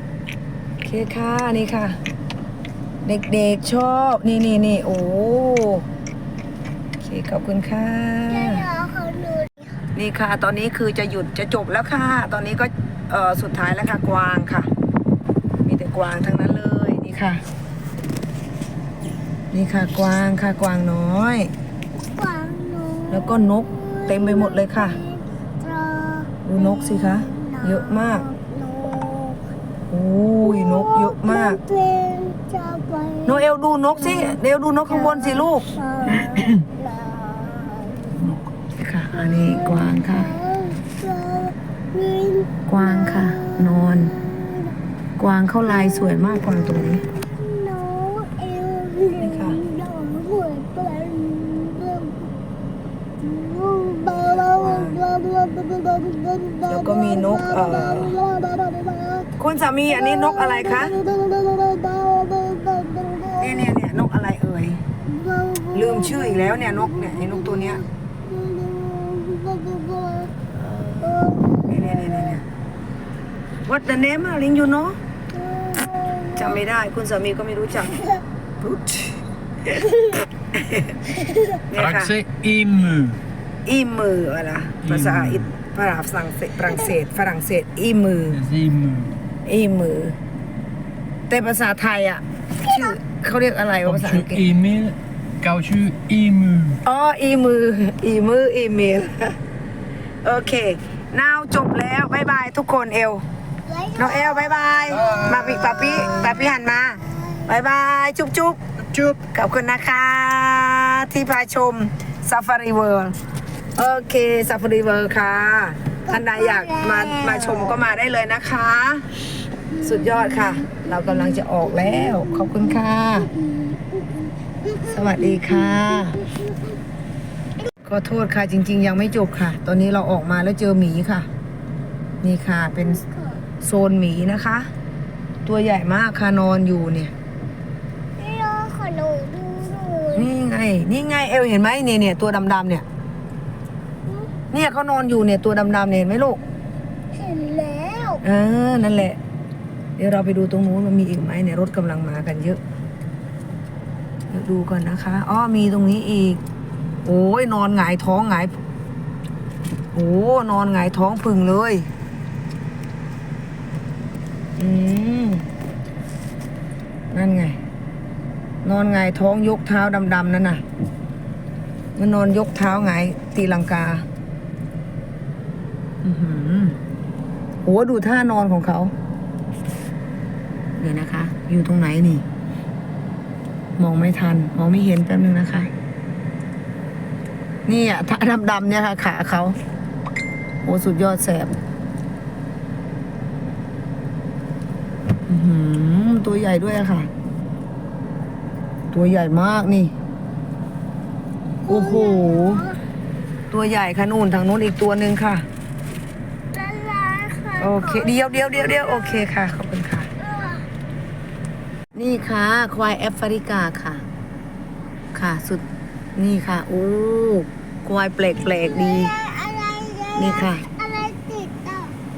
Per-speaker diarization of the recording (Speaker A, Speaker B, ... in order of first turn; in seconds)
Speaker A: 0.8-2.0, 3.0-5.8, 7.0-8.7, 9.9-14.7, 15.7-17.4, 19.5-21.5, 23.1-25.0, 26.4-28.2, 29.9-31.6, 33.3-35.7, 38.8-40.3, 42.7-44.1, 45.2-47.0, 49.2-49.6, 54.1-55.0, 56.7-58.2, 59.4-61.0, 63.4-64.8, 65.7-67.8, 70.5-72.4, 73.7-75.0, 76.4-78.0, 80.6-81.0, 81.7-82.2, 83.7-88.5, 89.5-90.2, 91.3-94.5, 96.8-99.4, 100.2-103.2, 104.0-108.6, 109.2-113.2, 113.8-119.0, 119.8-123.3, 124.8-126.2, 127.8-131.3, 132.2-133.0, 133.6-134.7, 135.4-137.1, 140.2-142.8, 144.5-146.4, 148.2-149.2, 150.0-152.6, 154.3-156.4, 157.1-158.5, 159.9-161.9, 164.6-165.4, 167.1-167.6, 168.6-170.6, 172.0-174.0, 176.0-176.8, 177.7-178.9, 180.8-182.2, 183.8-185.7, 187.7-189.6, 190.7-191.6, 195.3-197.1, 198.9-199.9, 201.7-202.7, 203.5-205.5, 207.6-210.1, 211.9-214.1, 215.1-215.6, 216.2-219.1, 220.2-220.7
Speaker B: 8.3-9.8, 22.0-29.4, 30.4-38.3, 39.1-44.8, 45.6-52.3, 53.2-59.4, 59.9-63.8, 65.0-70.3, 71.0-72.4, 75.3-76.6, 81.2-81.6, 92.6-93.0, 103.7-107.5, 116.1-117.8, 119.7-126.8, 132.7-133.4, 138.2-140.3, 144.1-144.3, 147.1-148.2, 201.7-202.8, 206.5-209.3, 210.2-210.7, 218.3-222.0
Speaker C: 81.8-83.2, 85.0-85.3, 88.5-89.1, 94.0-96.8, 105.0-105.5